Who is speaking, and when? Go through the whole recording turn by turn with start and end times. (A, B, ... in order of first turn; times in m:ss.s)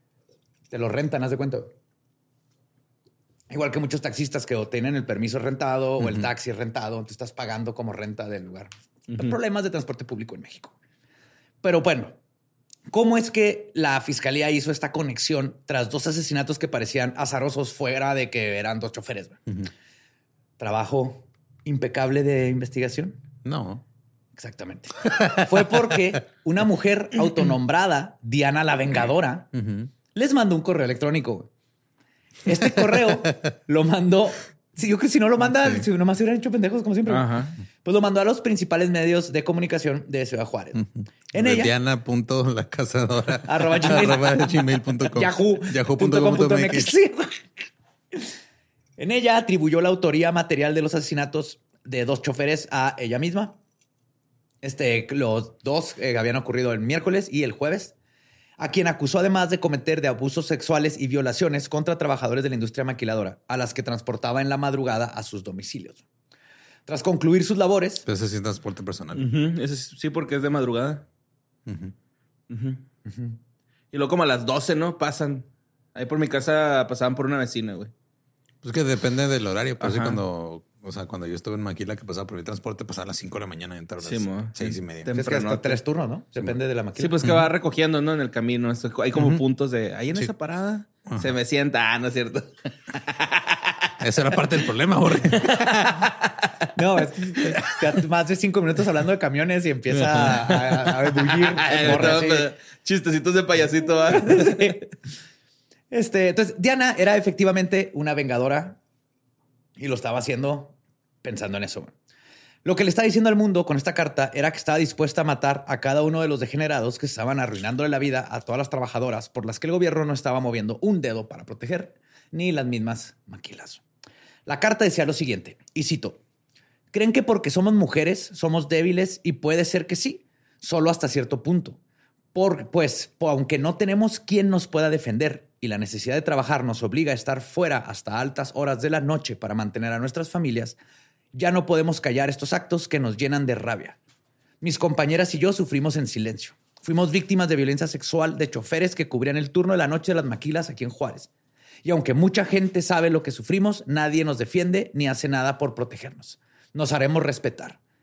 0:00.7-0:01.7 A
0:03.5-0:10.8 A
0:06.0-0:06.2 B
0:09.1-0:09.4 C
0:11.6-0:12.2 A
0:12.9-0:19.5 A
0:20.6-0:23.2 A
0:23.4-0:23.8 B
0:24.4-0:29.6 A
0:25.1-0:25.8 B
0:29.6-0:29.9 B
0:30.1-0:31.5 A
0:32.4-0:41.7 A
0:35.5-0:35.9 B
0:37.1-0:37.5 C
0:41.3-0:46.9 B
0:43.5-0:47.5 A
0:49.0-0:53.6 A
0:54.6-0:58.0 A
0:58.6-1:06.0 A
1:06.9-1:08.1 A
1:08.1-1:09.3 B
1:09.2-1:11.1 C
1:11.7-1:11.9 B
1:12.5-1:12.8 C
1:13.1-1:13.4 A
1:13.9-1:17.9 C
1:18.6-1:25.1 B
1:19.8-1:20.2 C
1:24.0-1:25.8 C
1:25.1-1:27.3 A
1:27.0-1:33.9 C
1:29.2-1:29.4 B
1:34.0-1:36.1 B
1:35.3-1:36.5 C
1:36.8-1:42.5 A
1:39.9-1:44.8 C
1:44.2-1:44.8 A
1:45.9-1:48.8 A
1:49.8-1:51.9 A
1:52.6-2:03.8 A
2:04.5-2:06.2 A
2:06.9-2:11.8 A
2:12.3-2:20.8 A
2:21.3-2:24.0 A
2:24.6-2:31.3 A
2:31.8-2:37.8 A